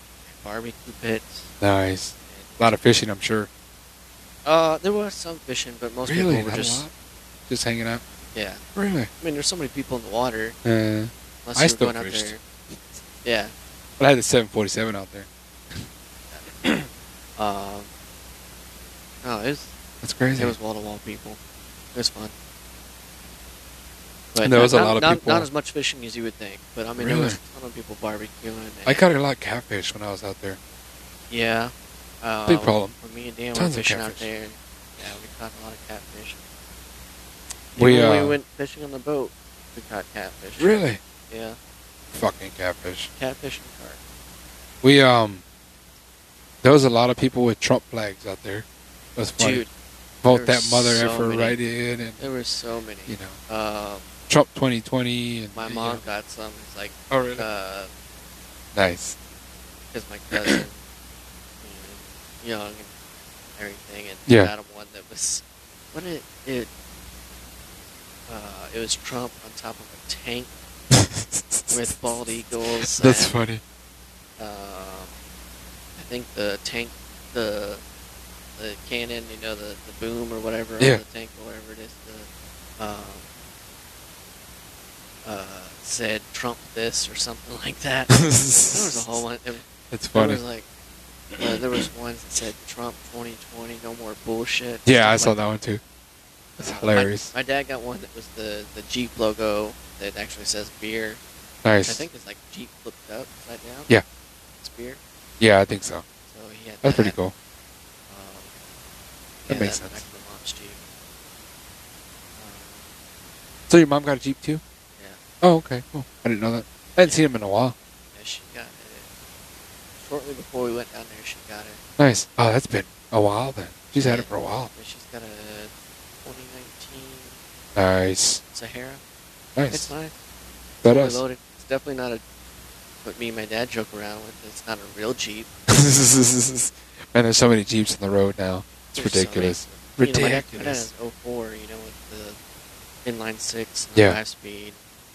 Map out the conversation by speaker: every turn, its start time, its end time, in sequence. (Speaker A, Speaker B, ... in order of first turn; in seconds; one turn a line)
Speaker A: 0.2-1.5
Speaker B: 1.6-3.5
Speaker A: 2.2-2.8
Speaker A: 4.4-6.8
Speaker B: 6.0-6.9
Speaker B: 7.5-8.0
Speaker A: 8.3-8.6
Speaker B: 8.7-9.1
Speaker A: 9.2-10.6
Speaker B: 10.6-13.0
Speaker A: 11.4-12.4
Speaker A: 13.2-13.5
Speaker B: 14.0-15.3
Speaker A: 15.7-16.5
Speaker B: 16.6-16.9
Speaker A: 17.4-17.9
Speaker A: 19.2-19.7
Speaker B: 20.0-20.6
Speaker A: 20.4-21.4
Speaker A: 21.9-22.3
Speaker A: 24.3-29.0
Speaker B: 24.4-25.5
Speaker B: 27.0-27.4
Speaker B: 28.9-30.6
Speaker A: 31.3-36.4
Speaker B: 32.5-32.9
Speaker B: 33.5-34.3
Speaker A: 37.7-40.7
Speaker B: 37.8-38.4
Speaker B: 40.6-41.0
Speaker A: 41.3-41.6
Speaker B: 42.1-43.1
Speaker A: 43.2-44.0
Speaker B: 44.8-45.4
Speaker B: 46.6-48.6
Speaker B: 49.2-49.6
Speaker A: 49.4-49.7
Speaker B: 50.2-52.2
Speaker A: 50.3-51.6
Speaker A: 52.2-54.1
Speaker B: 53.1-53.4
Speaker B: 54.3-56.0
Speaker A: 55.5-57.9
Speaker B: 57.1-57.5
Speaker B: 58.7-59.1
Speaker A: 59.9-60.8
Speaker A: 61.6-62.9
Speaker A: 63.6-66.7
Speaker B: 64.3-64.5
Speaker A: 68.3-70.5
Speaker B: 70.9-72.3
Speaker A: 71.7-73.3
Speaker B: 72.9-73.6
Speaker A: 74.4-75.1
Speaker A: 76.0-77.8
Speaker A: 78.6-83.2
Speaker A: 85.2-90.7
Speaker B: 88.1-89.2
Speaker B: 89.9-90.4
Speaker A: 91.4-95.4
Speaker B: 94.8-95.8
Speaker A: 96.6-101.2
Speaker B: 96.6-97.3
Speaker B: 101.6-102.0
Speaker A: 101.8-103.9
Speaker A: 104.6-105.0
Speaker B: 105.4-106.0
Speaker A: 106.3-107.2
Speaker B: 106.8-107.3
Speaker A: 108.1-108.5
Speaker A: 109.5-110.8
Speaker B: 109.5-110.0
Speaker A: 112.4-112.8
Speaker B: 113.7-114.6
Speaker B: 115.4-117.7
Speaker A: 117.0-117.3
Speaker A: 118.1-119.1
Speaker A: 120.0-121.8
Speaker B: 122.0-124.7
Speaker A: 124.0-125.7
Speaker A: 126.2-127.4
Speaker B: 127.7-128.4
Speaker A: 128.5-129.0
Speaker B: 129.6-129.9
Speaker A: 129.7-130.1
Speaker B: 130.8-131.2
Speaker A: 130.8-132.2
Speaker A: 133.0-135.5
Speaker B: 135.7-140.9
Speaker A: 138.9-142.4
Speaker A: 143.0-144.8